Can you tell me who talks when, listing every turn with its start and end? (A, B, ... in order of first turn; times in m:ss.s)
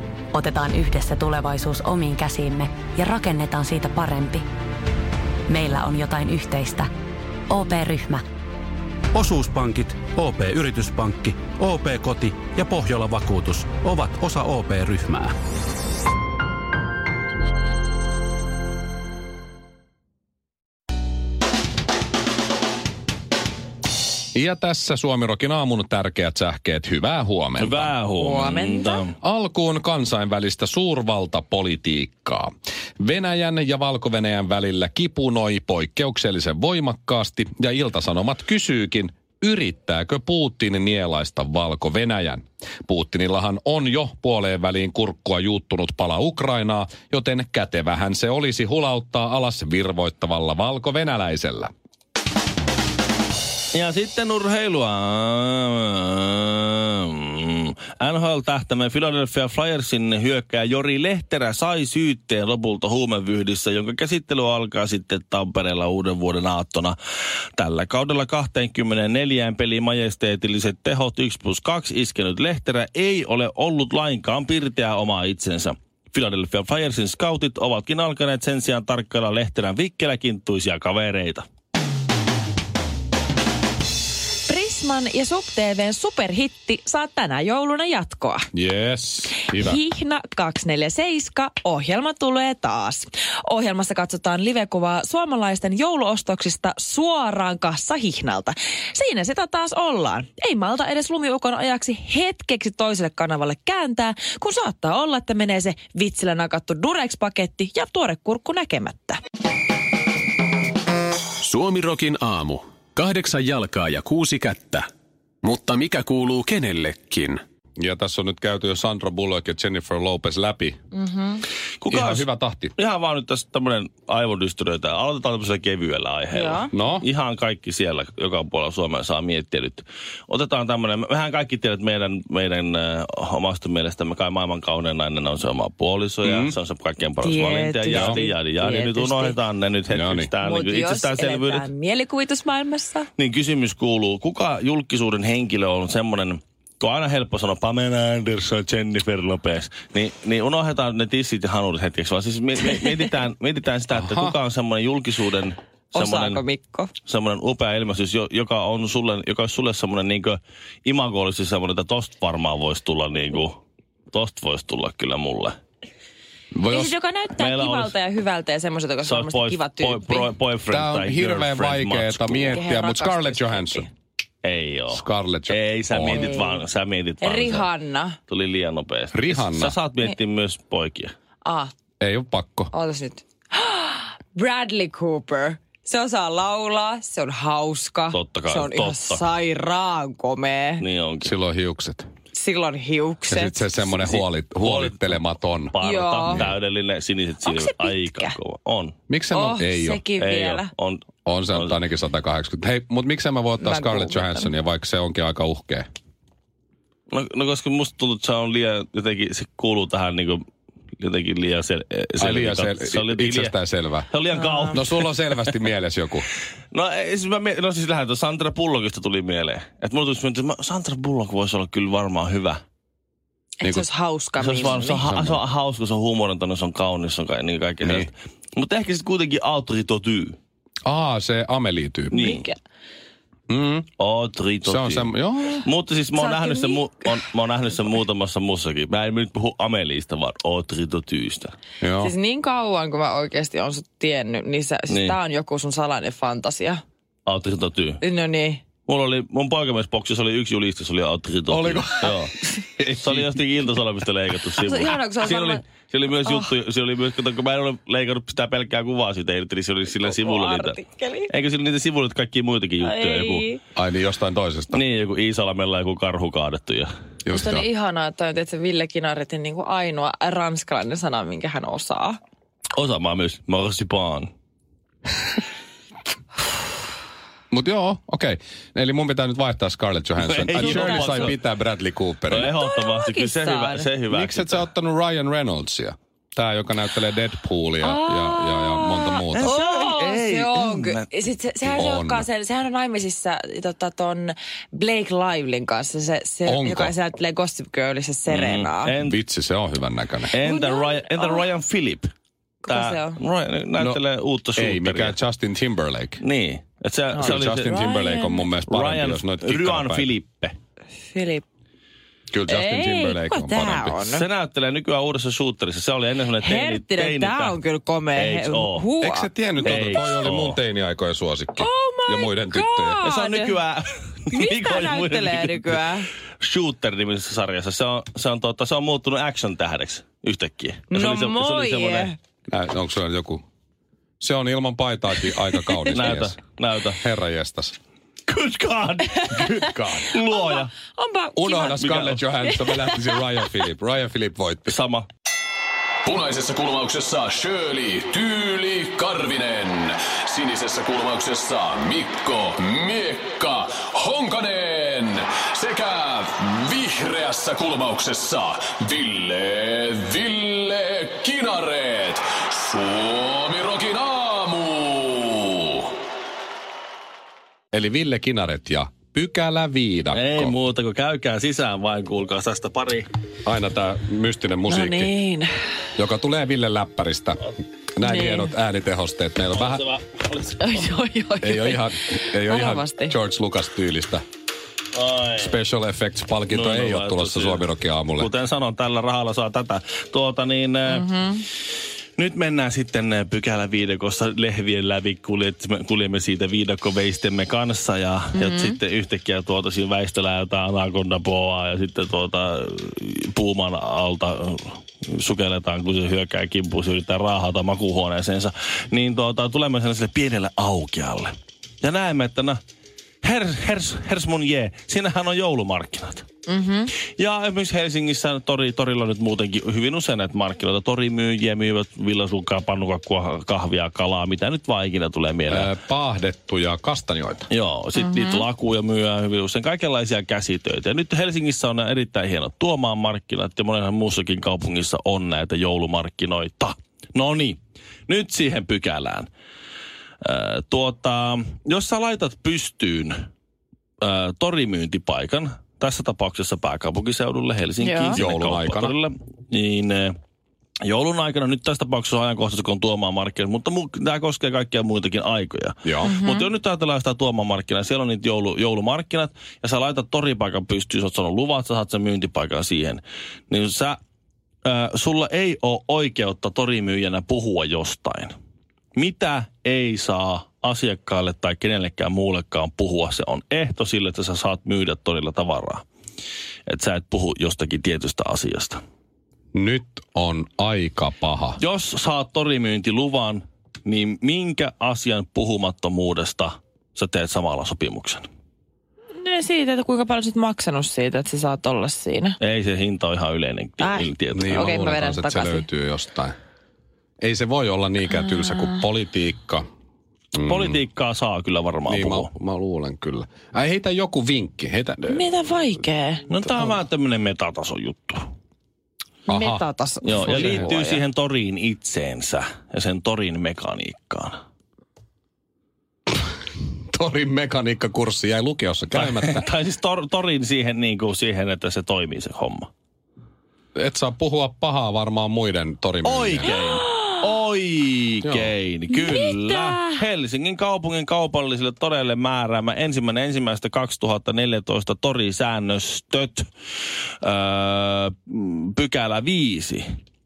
0:00.3-0:04.4 A
0:05.5-0:06.9 A
0:07.5-0:08.2 A
0:09.1-0:15.3 B
0:24.3-0:27.9 C
0:27.6-0:29.2 D
0:28.2-0:29.1 E
0:29.2-0:51.7 C
0:53.7-1:07.0 D
1:07.6-1:21.5 D
1:24.5-1:28.5 E
1:28.5-1:29.8 C
1:29.4-1:49.2 E
1:51.4-1:54.9 F
1:55.4-1:57.4 F
1:57.8-2:00.8 C
2:00.9-2:01.4 E
2:01.8-2:21.7 D
2:01.9-2:02.7 C
2:06.3-2:06.7 E
2:06.7-2:07.1 C
2:16.2-2:16.5 C
2:17.2-2:19.4 E
2:17.9-2:18.2 C
2:19.9-2:20.3 C
2:20.4-2:23.1 E
2:23.2-2:36.4 D
2:33.9-2:34.4 C
2:35.9-2:36.9 E
2:37.0-2:43.6 D
2:44.1-2:45.6 D
2:46.5-2:47.0 C
2:46.7-2:50.3 E
2:47.3-2:48.0 D
2:49.0-2:52.6 D
2:50.7-2:53.9 C
2:52.5-2:53.9 E
2:54.4-2:57.7 D
2:54.9-2:56.4 C
2:56.2-2:56.6 E
2:57.2-2:58.2 E
2:58.3-3:01.1 D
2:59.1-2:59.8 C
3:01.4-3:01.7 E
3:02.0-3:02.7 C
3:02.7-3:10.8 E
3:08.1-3:09.2 D
3:10.8-3:11.3 D
3:11.2-3:12.1 C
3:12.3-3:14.0 E
3:13.3-3:16.5 C
3:14.0-3:19.0 D
3:15.8-3:16.4 E
3:17.4-3:18.4 E
3:19.1-3:20.0 C
3:19.3-3:20.7 E
3:20.2-3:21.8 D
3:21.3-3:25.8 C
3:23.6-3:24.5 E
3:27.1-3:30.4 D
3:31.0-3:33.6 D
3:32.2-3:34.1 C
3:34.1-3:35.6 D
3:34.4-3:34.7 E
3:34.7-3:36.3 C
3:36.7-3:42.6 D
3:43.6-3:45.1 E
3:43.6-3:43.9 C
3:44.4-3:50.4 D
3:45.0-3:45.4 C
3:47.8-3:48.1 C
3:50.9-3:52.4 C
3:52.1-3:52.5 D
3:52.1-3:52.6 E
3:53.5-3:53.9 C
3:54.0-3:55.1 D
3:54.6-3:55.7 C
3:55.6-4:01.6 D
3:56.2-3:57.2 E
4:01.8-4:02.1 C
4:02.0-4:06.8 E
4:04.9-4:05.2 D
4:07.3-4:08.0 D
4:08.0-4:08.6 E
4:08.9-4:23.5 D
4:11.5-4:13.3 C
4:14.6-4:16.5 E
4:20.0-4:21.3 E
4:22.8-4:23.6 E
4:23.8-4:24.8 C
4:24.7-4:26.9 D
4:27.2-4:27.7 C
4:27.3-4:32.2 E
4:32.8-4:34.3 D
4:37.5-4:42.5 C
4:40.2-4:41.4 D
4:40.6-4:41.2 E
4:42.3-4:44.7 D
4:42.5-4:43.9 E
4:44.1-4:49.6 C
4:47.8-4:59.0 E
4:49.3-4:51.1 D
4:51.8-4:52.3 C
4:56.5-4:56.9 C
4:58.3-4:59.2 D
4:59.0-5:00.3 C
5:00.3-5:02.1 D
5:00.5-5:01.5 E
5:02.6-5:03.2 E
5:02.7-5:05.2 D
5:04.6-5:06.2 C
5:06.2-5:07.8 D
5:07.1-5:08.5 E
5:07.2-5:10.1 C
5:08.7-5:10.6 D
5:11.1-5:11.4 E
5:12.3-5:14.0 C
5:12.5-5:14.3 E
5:14.1-5:17.6 D
5:16.4-5:20.2 E
5:18.2-5:18.9 D
5:19.0-5:23.0 C
5:19.6-5:20.6 D
5:21.6-5:23.6 E
5:23.0-5:25.9 D
5:24.3-5:26.1 E
5:26.4-5:32.1 D
5:30.9-5:32.2 E
5:32.5-5:33.4 C
5:34.2-5:36.4 C
5:35.9-5:37.0 D
5:37.0-5:37.8 C
5:38.3-5:40.7 D
5:39.0-5:43.6 E
5:39.4-5:40.2 C
5:41.4-5:44.8 C
5:41.8-5:42.2 D
5:44.7-5:45.1 D
5:46.0-6:05.9 F
6:07.7-6:10.6 C
6:10.1-6:13.1 D
6:13.4-6:15.1 C
6:14.7-6:15.5 E
6:16.0-6:19.8 C
6:18.0-6:18.6 E
6:19.5-6:20.7 D
6:20.6-6:23.2 E
6:21.4-6:24.2 C
6:24.9-6:25.6 D
6:25.4-6:28.3 C
6:26.5-6:31.1 D
6:30.9-6:31.4 E
6:32.2-6:52.6 D
6:38.4-6:38.8 E
6:53.2-6:56.3 D
6:56.5-6:56.9 E
6:57.0-7:05.7 D
7:05.5-7:07.5 C
7:07.5-7:19.3 D
7:08.0-7:08.4 E
7:20.2-7:23.3 D
7:24.0-7:30.2 D
7:27.8-7:28.2 E
7:28.1-7:28.9 C
7:30.8-7:44.0 D
7:35.8-7:36.2 C
7:36.0-7:36.5 E
7:44.6-7:48.3 D
7:49.0-7:55.8 D
7:56.7-7:58.8 D
7:59.5-8:01.6 C
8:01.6-8:08.3 D
8:09.2-8:12.4 E
8:12.4-8:15.0 D
8:13.8-8:15.7 E
8:14.3-8:16.3 C
8:17.2-8:19.6 C
8:18.2-8:18.7 E
8:20.4-8:20.8 C
8:20.4-8:22.3 D
8:21.9-8:25.3 C
8:25.1-8:26.8 E
8:26.3-8:28.2 D
8:29.3-8:29.6 C
8:29.3-8:31.0 E
8:30.0-8:34.4 D
8:30.2-8:30.7 C
8:36.9-8:39.5 C
8:38.9-8:42.7 D
8:43.8-8:46.6 C
8:46.0-8:56.5 D
8:46.5-8:47.3 E
8:48.2-8:48.5 C
8:48.9-8:50.0 E
8:57.2-8:59.9 D